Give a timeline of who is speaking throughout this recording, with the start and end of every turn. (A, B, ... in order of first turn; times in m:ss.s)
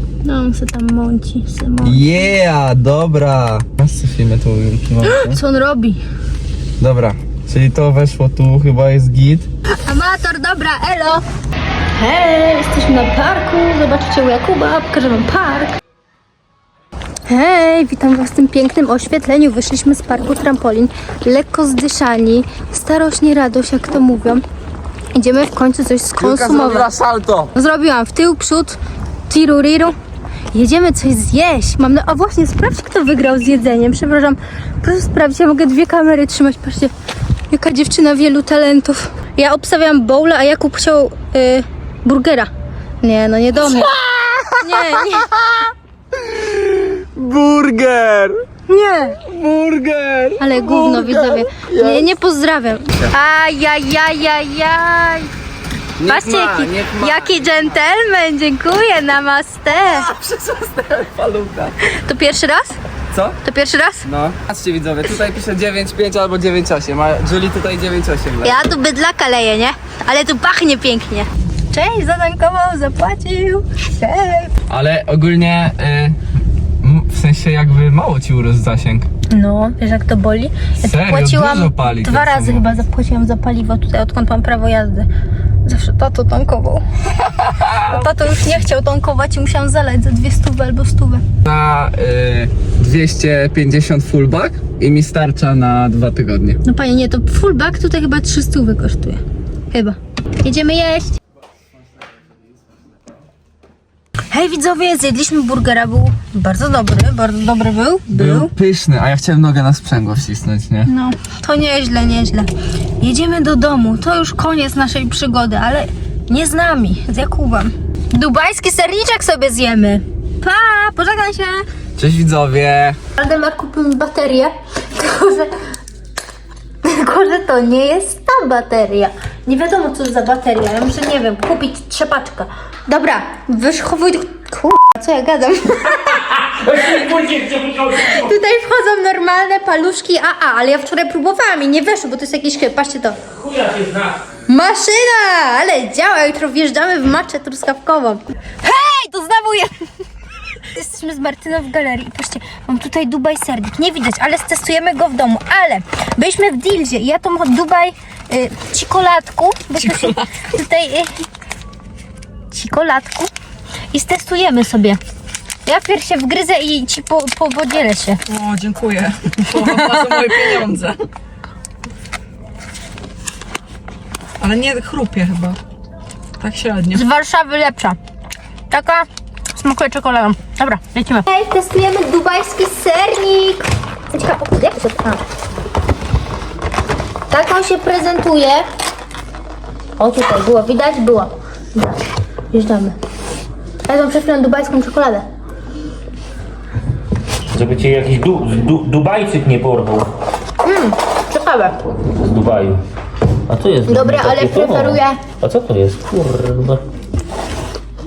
0:00.2-0:02.4 A
0:01.8-0:05.4 B
0:05.0-0:06.0 A
0:06.8-0:09.5 B
0:09.8-0:11.2 A
0:12.0-0:15.8 A
0:17.3-0:24.4 A
0:25.1-0:26.9 A
0:26.2-0:27.5 B
0:27.6-0:28.8 A
0:29.3-0:30.0 A
0:30.5-0:36.9 A
0:37.5-0:42.5 A
0:43.0-0:44.0 A
0:43.6-0:45.6 B
0:44.6-0:45.3 A
0:46.2-0:48.4 B
0:48.7-0:49.2 A
0:49.2-0:52.1 B
0:50.4-0:55.3 A
0:56.0-0:57.8 B
0:56.0-1:00.1 A
0:59.8-1:01.8 B
1:01.8-1:02.8 A
1:03.1-1:03.4 B
1:03.4-1:04.1 A
1:04.0-1:08.6 B
1:08.4-1:14.5 A
1:14.7-1:16.2 B
1:16.8-1:19.1 B
1:19.3-1:25.1 A
1:20.8-1:22.7 B
1:25.6-1:26.8 A
1:27.4-1:28.0 B
1:27.8-1:31.2 A
1:31.4-1:36.6 B
1:36.6-1:41.2 A
1:44.3-1:48.5 A
1:48.1-1:50.9 B
1:50.9-1:52.5 A
1:53.0-2:01.6 A
2:02.0-2:03.0 B
2:03.2-2:05.5 A
2:06.8-2:17.1 A
2:16.3-2:18.2 C
2:17.9-2:23.2 A
2:23.3-2:24.3 C
2:24.5-2:29.8 A
2:30.6-2:41.1 A
2:42.5-2:43.3 A
2:43.9-2:45.0 A
2:45.7-2:48.2 A
2:48.3-2:51.0 D
2:49.5-2:50.6 A
2:54.4-2:55.6 D
2:56.4-2:57.0 D
2:56.9-2:58.0 A
2:58.7-3:05.2 A
3:07.3-3:08.7 A
3:10.0-3:11.9 A
3:12.5-3:13.0 A
3:13.9-3:15.3 A
3:17.5-3:20.1 C
3:20.6-3:21.8 A
3:22.1-3:22.8 C
3:23.5-3:26.8 C
3:23.9-3:25.2 A